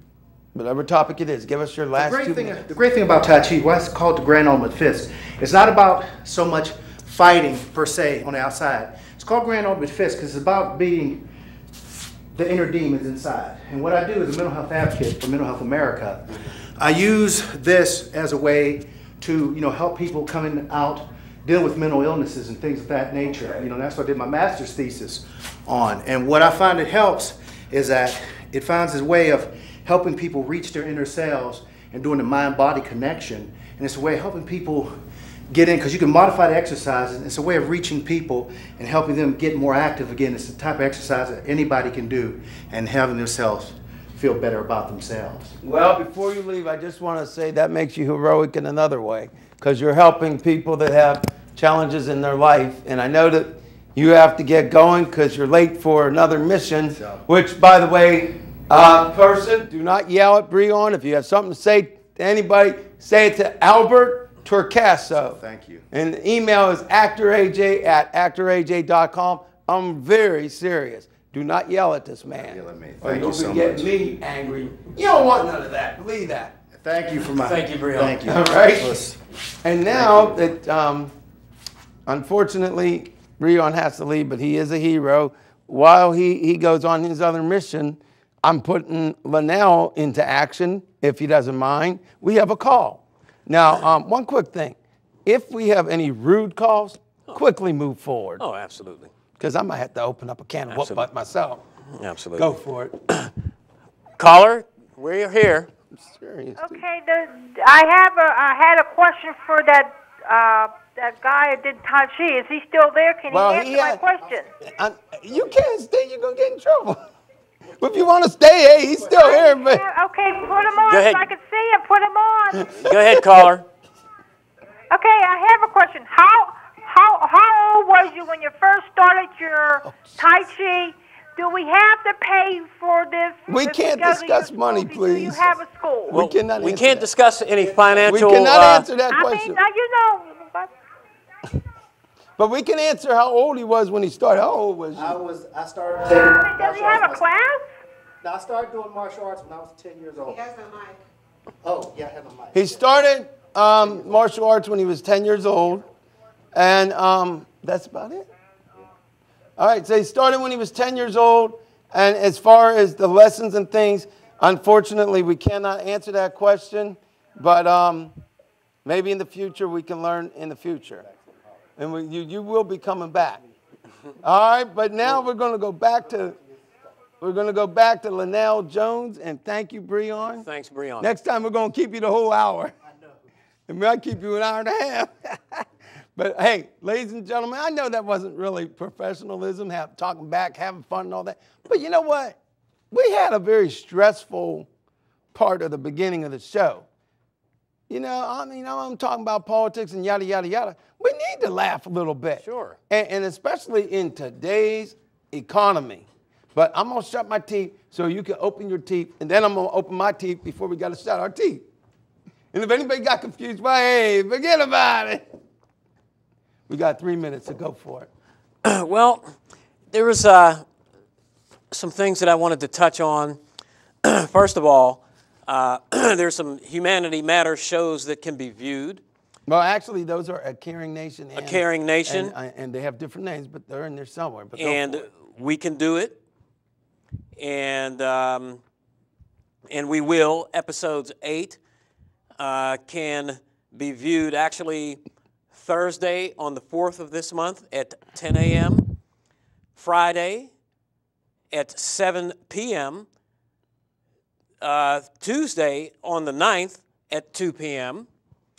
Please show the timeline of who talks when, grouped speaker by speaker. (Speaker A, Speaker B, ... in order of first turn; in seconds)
Speaker A: 0.6-2.6, 45.6-65.4, 65.9-76.5, 78.2-79.0, 79.6-81.1, 82.1-98.4, 99.4-101.6, 102.4-103.0, 105.9-106.8, 113.3-114.0, 114.6-117.0, 117.8-119.8, 122.5-123.5, 129.8-130.3, 133.5-135.5, 136.1-137.1, 138.0-139.6, 142.4-145.2, 152.5-155.8, 156.5-158.3, 159.6-168.2, 168.8-171.1, 171.8-173.4, 174.2-176.4, 177.2-180.5, 181.0-182.8, 183.7-192.4, 192.9-194.7, 195.3-196.9, 197.9-211.7, 212.5-215.2, 216.7-218.1, 229.5-235.1
Speaker B: 2.0-11.2, 12.3-34.9, 35.5-45.5, 57.0-57.2, 65.1-65.8, 72.4-74.0, 76.7-79.2, 79.9-80.4, 144.9-147.2, 148.2-150.7, 151.6-152.8, 153.8-154.1
Speaker C: 77.4-78.2, 98.4-99.1, 100.7-101.1, 101.9-102.5, 104.2-105.7, 120.9-121.3, 122.8-123.7, 136.1-138.9, 180.2-181.1, 202.4-202.8, 218.6-219.3, 219.9-220.6, 221.7-223.4, 224.0-229.0, 231.3-232.3, 234.6-236.2, 237.4-238.6, 239.7-241.6, 242.4-245.0, 245.5-248.9, 249.8-250.5, 251.5-253.1, 254.6-258.1
Speaker D: 106.6-114.5, 119.1-122.8, 124.9-136.2, 139.1-140.7, 146.2-147.7